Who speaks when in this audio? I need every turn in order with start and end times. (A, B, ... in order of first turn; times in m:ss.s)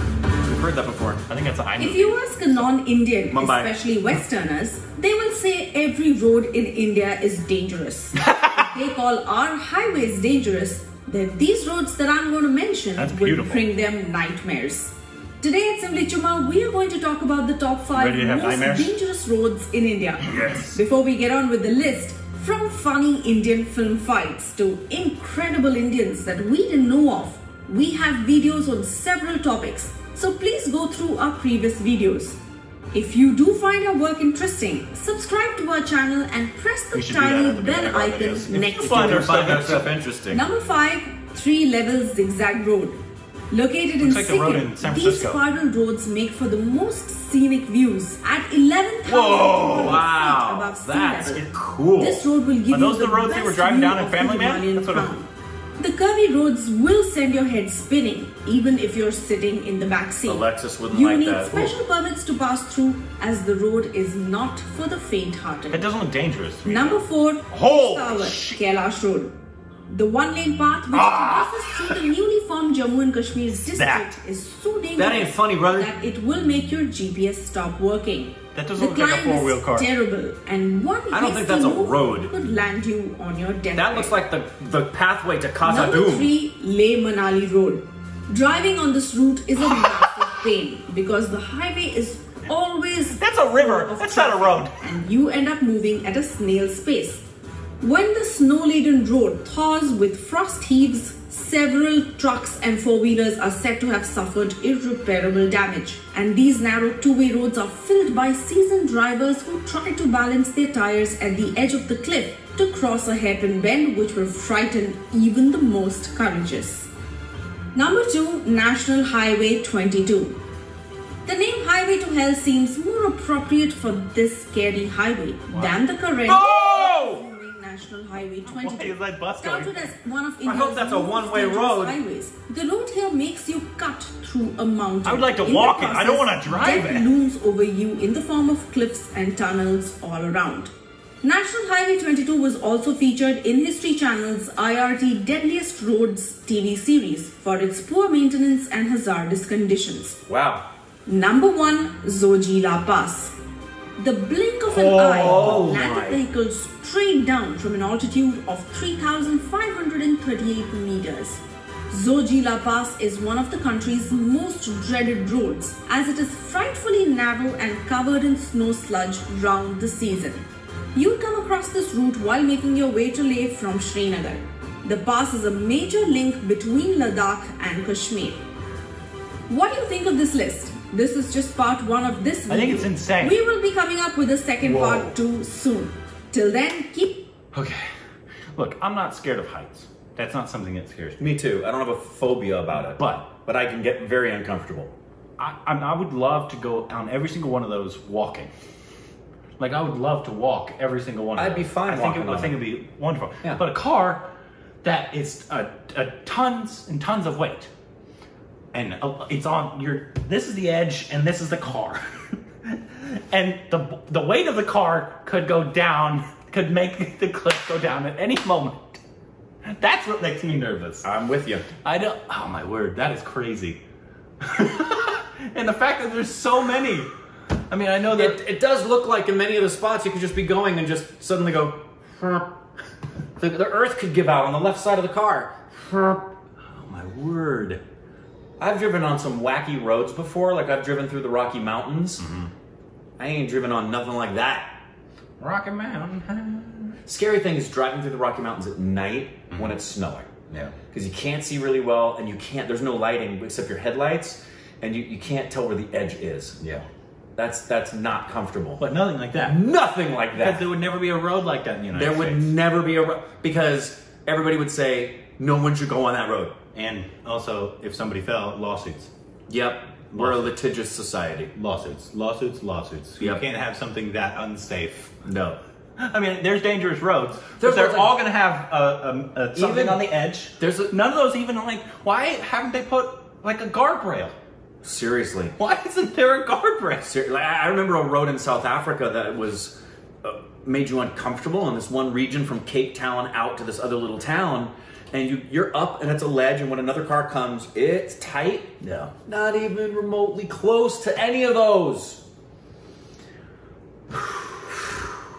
0:00.4-0:01.2 A
0:01.3-0:02.7 B
0:01.8-0:32.4 C
0:03.3-0:03.7 A
0:08.2-0:08.5 B
0:13.0-0:13.7 B
0:17.9-0:18.9 B
0:20.3-0:20.8 B
0:32.9-0:39.5 C
0:36.9-0:39.9 B
0:38.8-0:40.4 A
0:40.3-0:43.0 C
0:43.5-1:05.9 C
0:44.0-0:45.4 B
0:49.1-0:50.0 B
0:49.4-0:52.2 A
0:52.7-0:55.1 B
1:00.3-1:01.7 A
1:05.7-1:08.6 B
1:06.6-1:09.3 C
1:09.9-1:24.2 C
1:10.9-1:12.1 B
1:13.7-1:14.1 B
1:15.0-1:15.9 A
1:18.5-1:19.9 B
1:21.1-1:22.3 A
1:23.8-1:26.3 A
1:25.6-1:37.2 C
1:33.2-1:34.8 B
1:37.8-1:56.9 C
1:57.7-2:00.4 C
2:01.2-2:20.7 C
2:05.5-2:05.8 B
2:06.3-2:07.2 A
2:08.5-2:09.9 B
2:10.4-2:12.0 A
2:15.1-2:17.1 B
2:21.2-2:30.2 C
2:30.3-2:30.6 A
2:31.1-2:33.3 C
2:34.0-2:58.4 C
2:34.7-2:35.8 B
2:34.8-2:36.2 A
2:59.5-3:07.3 C
3:02.5-3:03.4 B
3:04.6-3:05.2 B
3:07.5-3:07.9 B
3:08.6-3:11.2 B
3:11.2-3:14.9 A
3:13.0-3:13.2 B
3:15.4-3:18.5 B
3:19.6-3:24.3 B
3:21.4-3:22.6 A
3:24.8-3:27.7 B
3:28.7-3:39.0 B
3:39.6-3:41.1 B
3:41.0-3:41.6 A
3:41.8-3:43.8 B
3:44.4-3:47.1 B
3:47.7-3:48.4 B
3:48.2-3:52.5 A
3:53.4-3:56.1 A
3:56.7-3:57.8 B
3:58.6-4:02.2 A
4:02.2-4:02.5 B
4:03.2-4:04.8 A
4:05.4-4:07.0 B
4:07.1-4:10.3 A
4:09.5-4:09.8 B
4:10.5-4:10.8 B
4:10.9-4:16.6 A
4:16.6-4:16.9 B
4:17.4-4:18.8 A
4:18.8-4:19.6 B
4:19.4-4:20.7 A
4:20.3-4:22.5 B
4:21.9-4:26.6 A
4:26.7-4:29.1 B
4:29.5-4:31.5 A
4:30.1-4:30.6 B
4:31.6-4:35.2 B
4:35.2-4:35.6 A
4:36.0-4:44.4 B
4:37.6-4:38.2 A
4:39.5-4:40.1 A
4:40.6-4:40.9 A
4:44.8-4:45.6 A
4:45.6-4:47.1 B
4:47.0-4:58.7 A
4:58.8-4:59.1 B
4:59.3-5:02.2 A
5:04.1-5:05.1 A